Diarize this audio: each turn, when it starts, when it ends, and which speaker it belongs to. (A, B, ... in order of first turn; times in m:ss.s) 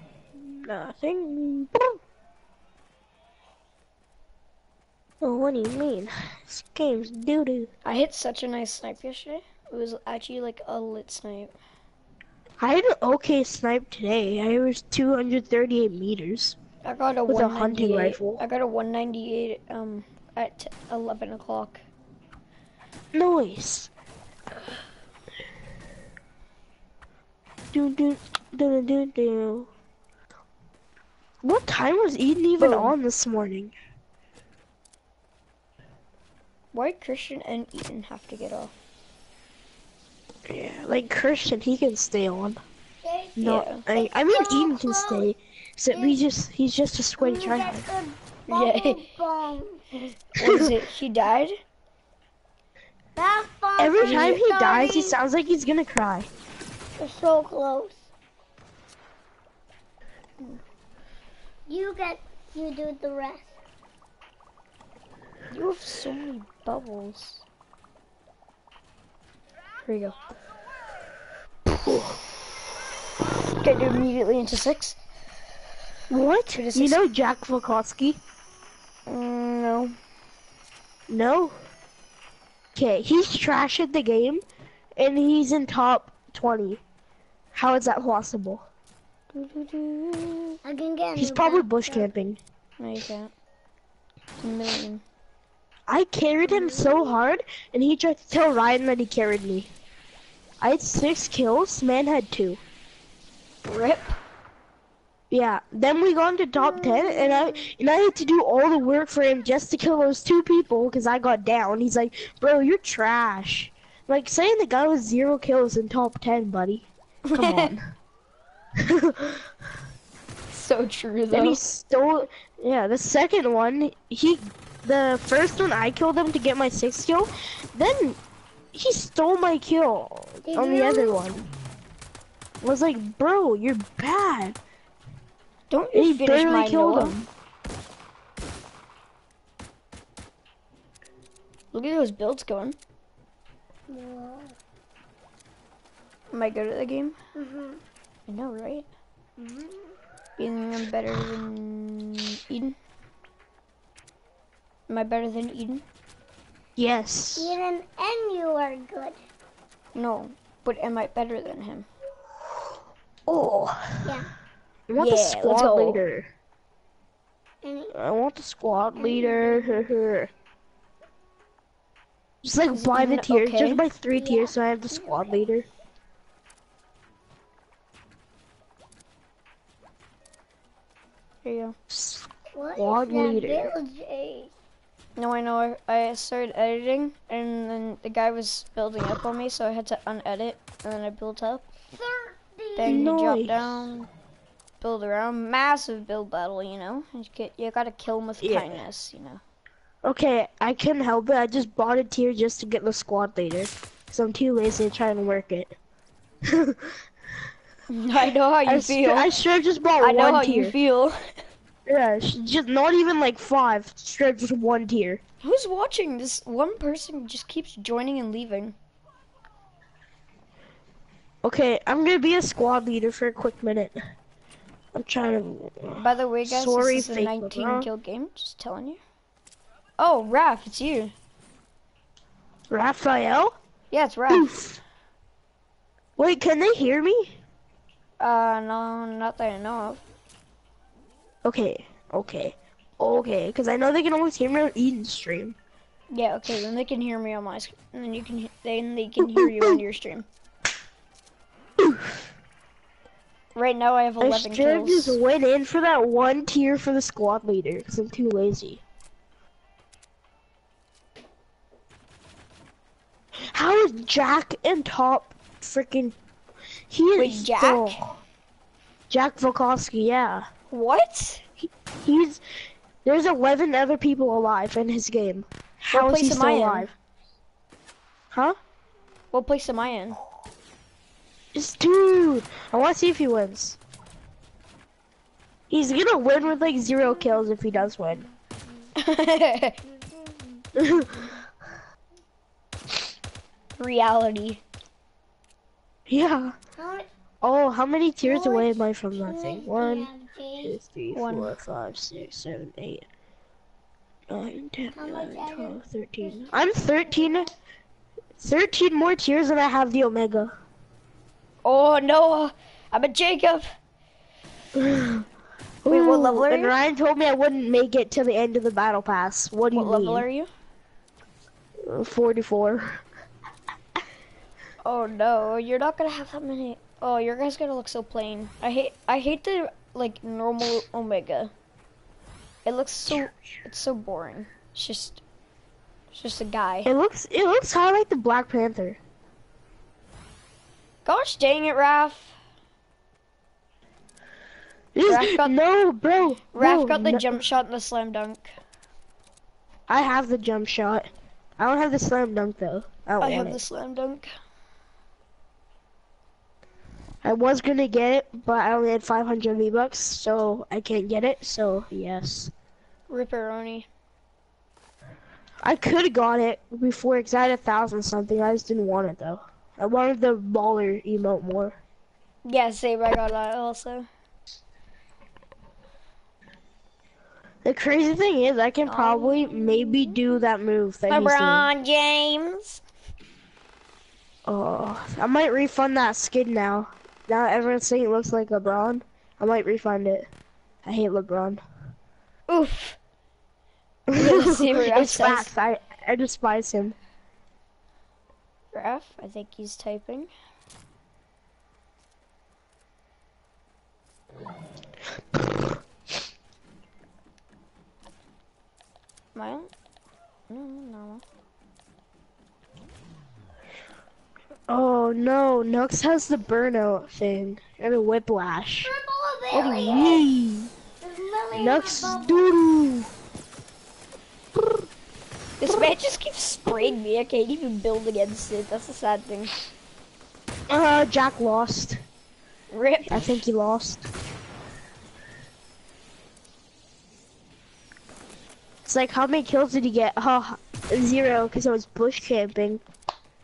0:00.3-0:02.0 A
0:05.2-0:07.7 A
0:07.8-0:11.5 B
0:12.6-0:16.6 A
0:16.8-0:21.8 B
0:17.3-0:18.4 A
0:23.1-0:23.9 A
0:27.7-0:29.7 A
0:31.4-0:33.7 A
0:32.6-0:32.9 B
0:36.7-0:38.7 B
0:40.5-0:42.6 A
0:43.0-0:45.3 C
0:43.4-0:47.9 A
0:43.4-0:43.8 B
0:45.9-0:46.2 C
0:47.2-0:49.8 C
0:48.5-0:49.0 B
0:50.3-0:51.6 B
0:50.4-0:50.7 A
0:53.2-0:55.2 C
0:53.8-0:56.3 A
0:54.0-0:54.4 B
0:57.0-0:58.1 C
1:01.7-1:03.5 C
1:05.5-1:07.4 B
1:09.8-1:10.2 B
1:11.7-1:12.1 A
1:13.6-1:15.0 B
1:16.1-1:18.2 A
1:16.5-1:17.0 B
1:19.1-1:19.9 B
1:21.1-1:21.5 A
1:22.7-1:24.4 A
1:25.0-1:26.8 A
1:27.5-1:28.6 A
1:29.3-1:30.6 B
1:30.6-1:32.1 C
1:31.2-1:32.4 A
1:32.8-1:33.3 B
1:34.4-1:35.0 B
1:35.9-1:39.7 A
1:36.5-1:37.2 C
1:40.6-1:42.6 A
1:43.6-1:44.2 B
1:45.3-1:57.8 A
1:46.6-1:47.5 C
1:57.2-1:57.7 B
1:58.8-1:59.5 A
2:00.5-2:01.6 B
2:01.3-2:08.2 A
2:08.7-2:11.4 A
2:10.4-2:11.2 C
2:12.6-2:14.6 A
2:15.7-2:17.1 B
2:15.9-2:17.3 A
2:21.7-2:22.8 B
2:23.9-2:24.6 C
2:26.3-2:27.2 B
2:27.3-2:27.8 C
2:28.3-2:28.9 B
2:30.4-2:32.8 B
2:34.9-2:35.8 B
2:36.8-2:37.5 A
2:37.4-2:39.2 C
2:39.9-2:41.9 B
2:43.3-2:44.1 A
2:44.0-2:44.3 C
2:44.9-2:46.3 A
2:45.0-2:46.0 B
2:47.6-2:47.9 C
2:47.9-2:50.3 A
2:49.0-2:49.9 C
2:52.4-2:55.6 A
2:52.7-2:53.8 B
2:54.1-2:55.5 C
3:01.4-3:01.8 B
3:01.9-3:03.7 A
3:02.5-3:04.5 C
3:05.2-3:11.7 B
3:11.9-3:13.1 C
3:12.8-3:14.1 B
3:12.8-3:13.8 A
3:14.8-3:19.4 B
3:18.4-3:18.8 A
3:20.0-3:25.7 A
3:26.4-3:27.0 A
3:27.9-3:29.3 B
3:28.6-3:30.7 A
3:30.0-3:31.3 B
3:31.8-3:35.2 A
3:35.4-3:38.8 B
3:41.4-3:44.0 A
3:44.9-3:47.9 A
3:46.0-3:49.0 B
3:50.0-3:51.1 B
3:52.7-3:53.5 A
3:53.9-3:54.5 B
3:54.3-3:54.8 A
3:56.2-3:57.4 A
3:58.2-4:00.0 B
4:01.4-4:05.6 A
4:06.1-4:10.3 B
4:09.2-4:09.8 A
4:11.8-4:12.3 A
4:13.5-4:15.2 B
4:14.2-4:18.8 A
4:23.4-4:26.2 A
4:26.9-4:28.2 A
4:27.2-4:28.0 B
4:29.1-4:30.4 A
4:30.7-4:31.4 B
4:32.0-4:32.4 A
4:33.0-4:36.9 A
4:35.9-4:36.9 B
4:38.3-4:38.6 A
4:39.3-4:40.2 B
4:41.5-4:43.8 A
4:45.7-4:48.2 A
4:49.0-4:49.8 B
4:50.8-4:51.4 A
4:53.8-4:54.6 B
4:56.1-4:56.6 A
4:56.8-4:57.1 C
4:57.4-5:00.1 A
4:58.2-5:00.8 C
5:00.6-5:03.0 A
5:01.1-5:01.5 B
5:04.3-5:07.5 A
5:05.0-5:07.5 C
5:08.4-5:10.5 A
5:11.6-5:13.7 B
5:14.7-5:15.3 A
5:15.8-5:20.3 A
5:15.9-5:16.8 B
5:19.7-5:20.5 B
5:21.8-5:23.0 A
5:24.8-5:31.5 B
5:32.6-5:35.2 B
5:33.1-5:33.4 A
5:36.1-5:36.9 B
5:36.8-5:39.0 A
5:41.0-5:42.4 B
5:44.9-5:47.4 A
5:45.0-5:45.6 B
5:46.5-5:48.5 B
5:49.9-5:53.6 A
5:53.2-5:54.3 B
5:57.2-6:02.5 A
6:03.1-6:03.9 B
6:05.6-6:11.8 A
6:12.4-6:14.1 B
6:17.6-6:21.7 A
6:18.8-6:19.7 B
6:19.4-6:19.8 C
6:21.1-6:22.8 B
6:24.4-6:30.3 A
6:30.8-6:31.6 A
6:32.5-6:33.0 B
6:34.1-6:37.0 A
6:34.1-6:35.5 B
6:38.7-6:40.3 B
6:49.3-6:49.7 B
6:50.5-6:51.2 B
6:54.7-6:58.9 A
6:58.8-7:00.2 C
6:59.5-7:00.7 A
7:01.0-7:02.5 C
7:01.5-7:03.1 A
7:04.6-7:04.8 A
7:05.6-7:09.5 B
7:05.6-7:05.9 A
7:10.7-7:12.0 A
7:12.7-7:13.4 B
7:13.1-7:14.1 A
7:18.8-7:22.8 A